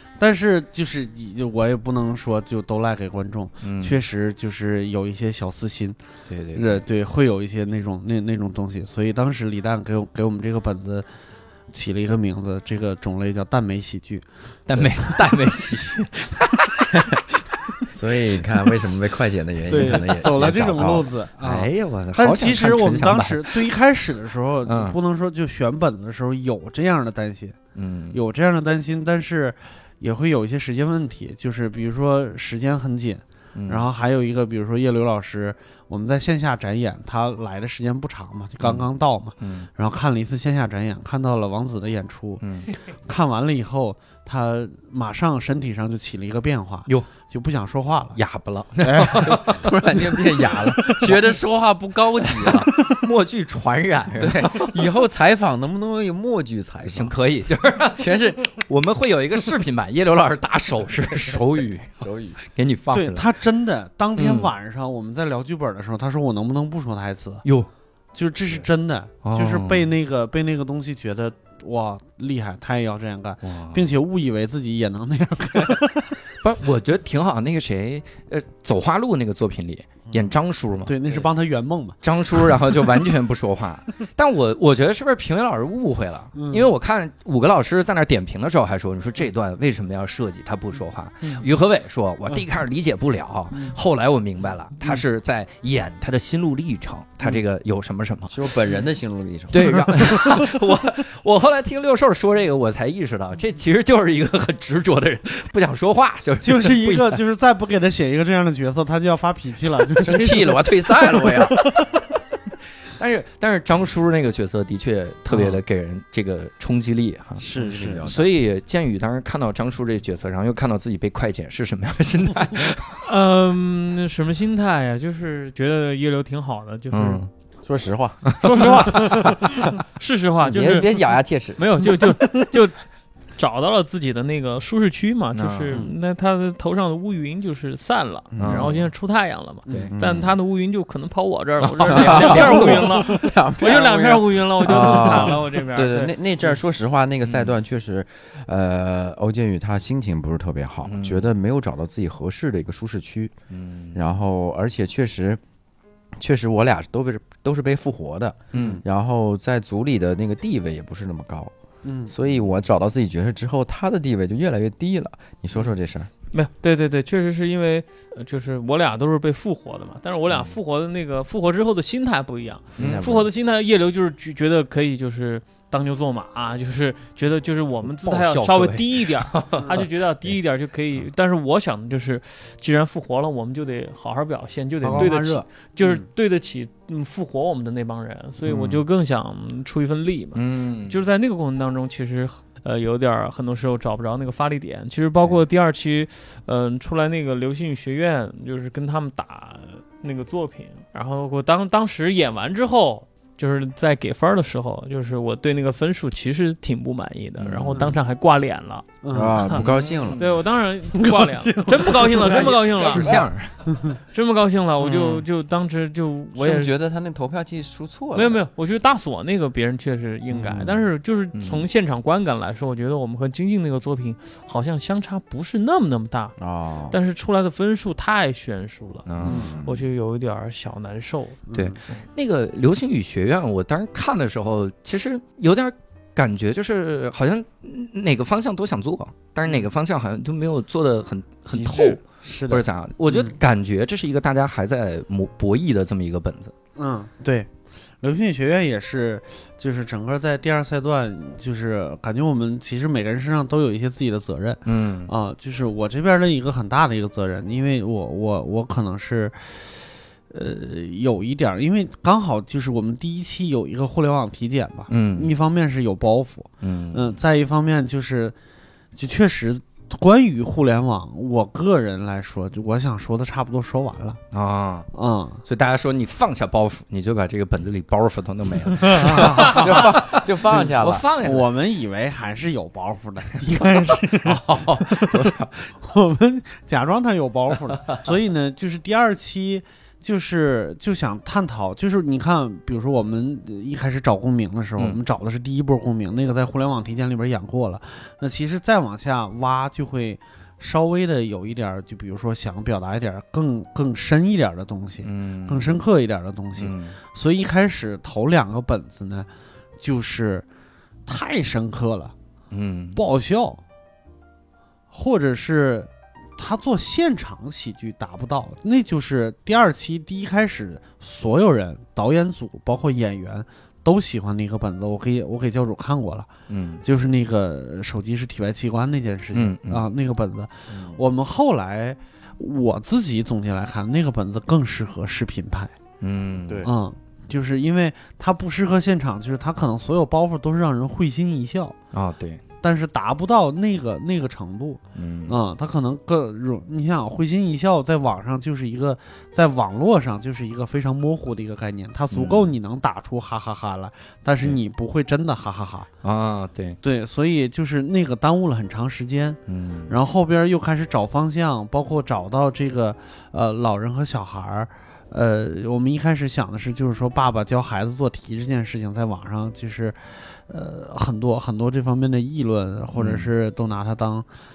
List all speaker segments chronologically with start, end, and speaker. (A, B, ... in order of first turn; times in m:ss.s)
0:00.2-0:06.0 A
0:03.6-0:04.0 B
0:06.3-0:06.8 B
0:06.5-0:11.1 A
0:11.7-0:14.2 A
0:14.7-0:17.2 B
0:17.9-0:21.1 C
0:19.7-0:27.6 A
0:21.4-0:23.6 B
0:24.6-0:25.0 B
0:27.8-0:28.2 B
0:28.1-0:42.4 A
0:33.6-0:33.9 B
0:38.6-0:38.9 B
0:39.4-0:39.7 B
0:42.4-0:42.7 B
0:43.0-0:48.2 A
0:48.2-0:51.4 B
0:48.8-0:49.4 A
0:49.3-0:52.7 C
0:52.2-0:54.8 B
0:54.2-0:57.2 C
0:56.8-1:03.3 B
0:58.0-0:58.5 C
1:01.2-1:02.4 C
1:02.9-1:07.4 A
1:04.2-1:04.5 B
1:07.4-1:07.7 B
1:08.1-1:16.2 A
1:09.2-1:09.9 B
1:13.4-1:13.9 B
1:16.4-1:21.3 B
1:20.9-1:23.1 A
1:22.0-1:38.4 B
1:26.4-1:26.7 A
1:38.3-1:40.2 C
1:39.5-1:47.2 B
1:46.4-1:52.0 A
1:50.0-1:51.8 C
1:52.9-1:57.4 B
1:55.3-1:55.6 A
1:57.4-1:58.1 A
1:57.5-1:58.3 C
1:58.0-2:03.1 B
2:03.1-2:07.2 D
2:06.9-2:07.3 B
2:07.6-2:09.4 C
2:08.2-2:09.3 B
2:08.4-2:12.8 D
2:10.4-2:12.1 C
2:13.4-2:26.1 D
2:15.3-2:15.8 B
2:18.3-2:18.8 C
2:18.4-2:18.9 B
2:19.7-2:20.0 B
2:19.9-2:20.4 C
2:21.6-2:22.9 B
2:21.8-2:33.3 C
2:24.7-2:25.3 B
2:27.3-2:27.5 B
2:30.8-2:31.3 B
2:33.5-2:34.0 B
2:33.9-2:35.4 C
2:36.2-2:41.5 C
2:38.5-2:38.8 B
2:38.5-2:38.8 A
2:41.8-2:42.1 A
2:42.1-2:46.1 C
2:46.3-3:29.6 D
2:52.8-2:53.1 B
2:52.8-2:53.3 C
2:57.8-3:00.3 B
3:04.8-3:06.1 A
3:08.5-3:08.8 B
3:10.4-3:11.0 B
3:27.4-3:27.8 B
3:29.0-3:29.4 A
3:29.1-3:30.4 C
3:29.6-3:30.3 B
3:30.2-3:33.2 D
3:30.9-3:32.6 A
3:32.2-3:33.7 B
3:32.8-3:33.2 C
3:34.1-3:36.7 D
3:34.8-3:35.2 A
3:36.4-3:38.4 C
3:38.1-3:46.4 D
3:40.3-3:40.8 C
3:41.3-3:41.6 B
3:46.4-3:47.0 C
3:46.9-3:49.1 D
3:49.1-3:49.5 B
3:49.2-3:49.9 C
3:49.2-3:49.6 A
3:49.6-3:52.0 D
3:51.5-3:51.8 A
3:51.5-4:06.5 B
4:01.6-4:03.4 A
4:06.8-4:07.5 A
4:08.0-4:28.3 A
4:14.7-4:15.1 B
4:24.9-4:25.3 B
4:26.6-4:27.1 B
4:29.0-4:34.2 A
4:34.3-4:34.9 B
4:34.9-4:35.4 A
4:35.4-4:41.5 B
4:38.9-4:39.9 A
4:39.0-4:41.0 C
4:41.2-5:09.3 A
4:44.2-4:45.5 B
4:47.7-4:48.0 B
5:05.0-5:05.8 B
5:06.6-5:07.0 B
5:09.8-5:10.4 A
5:11.1-5:12.1 A
5:12.5-5:13.0 B
5:13.0-5:13.6 A
5:14.9-5:26.3 A
5:26.5-5:26.8 B
5:26.8-5:35.7 A
5:29.3-5:29.8 B
5:30.7-5:31.0 C
5:36.0-5:36.7 B
5:36.6-5:41.8 A
5:41.9-5:42.4 B
5:42.6-5:55.9 A
5:45.0-5:45.4 B
5:52.1-5:52.5 B
5:56.0-5:56.8 B
5:56.8-6:14.3 A
5:59.5-5:59.9 B
6:12.9-6:13.3 B